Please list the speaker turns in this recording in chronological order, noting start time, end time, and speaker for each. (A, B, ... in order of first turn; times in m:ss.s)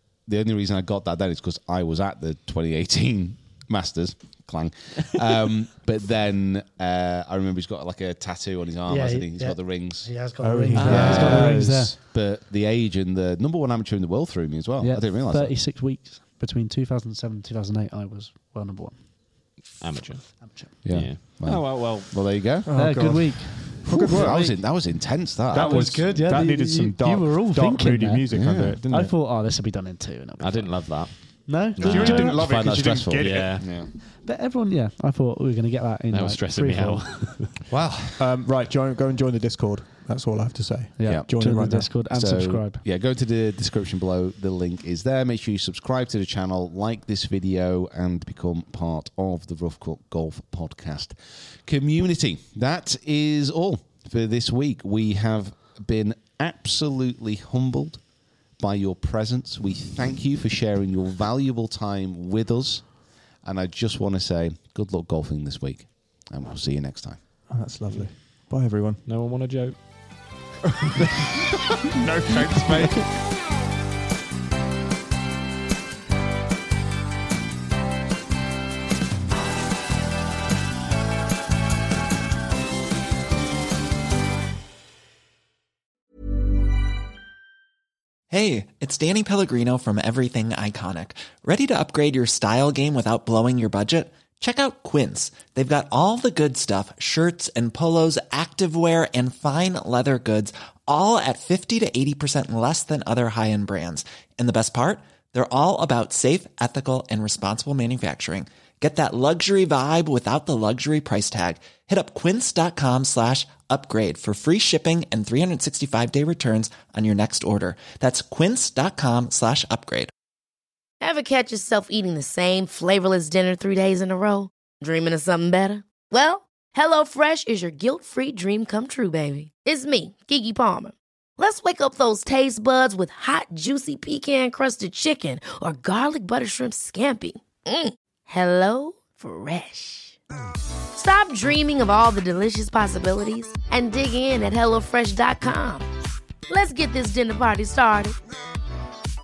0:00.2-0:10.2 A
0:08.9-0:12.0 B
0:10.4-0:12.0 C
0:10.8-0:11.6 D
0:10.8-0:15.6 A
0:14.8-0:19.6 B
0:19.8-0:22.4 D
0:20.4-0:20.7 B
0:20.8-0:23.0 A
0:22.6-0:24.6 C
0:22.8-0:24.6 B
0:24.0-0:26.1 A
0:25.5-0:29.2 C
0:25.5-0:28.3 B
0:28.3-0:28.8 A
0:28.9-0:32.4 B
0:30.4-0:32.4 D
0:31.8-0:33.6 C
0:31.8-0:33.9 A
0:33.1-0:33.8 D
0:34.0-0:37.4 B
0:36.1-0:37.5 D
0:37.7-0:38.4 A
0:38.2-0:42.0 C
0:41.0-0:42.8 B
0:41.0-0:41.3 A
0:42.0-1:07.3 A
1:07.5-1:09.0 C
1:07.9-1:08.4 D
1:09.0-1:10.4 D
1:12.0-1:13.1 C
1:28.3-2:00.1 E
2:01.0-2:20.2 F
2:21.0-2:25.9 F
2:26.5-2:28.2 F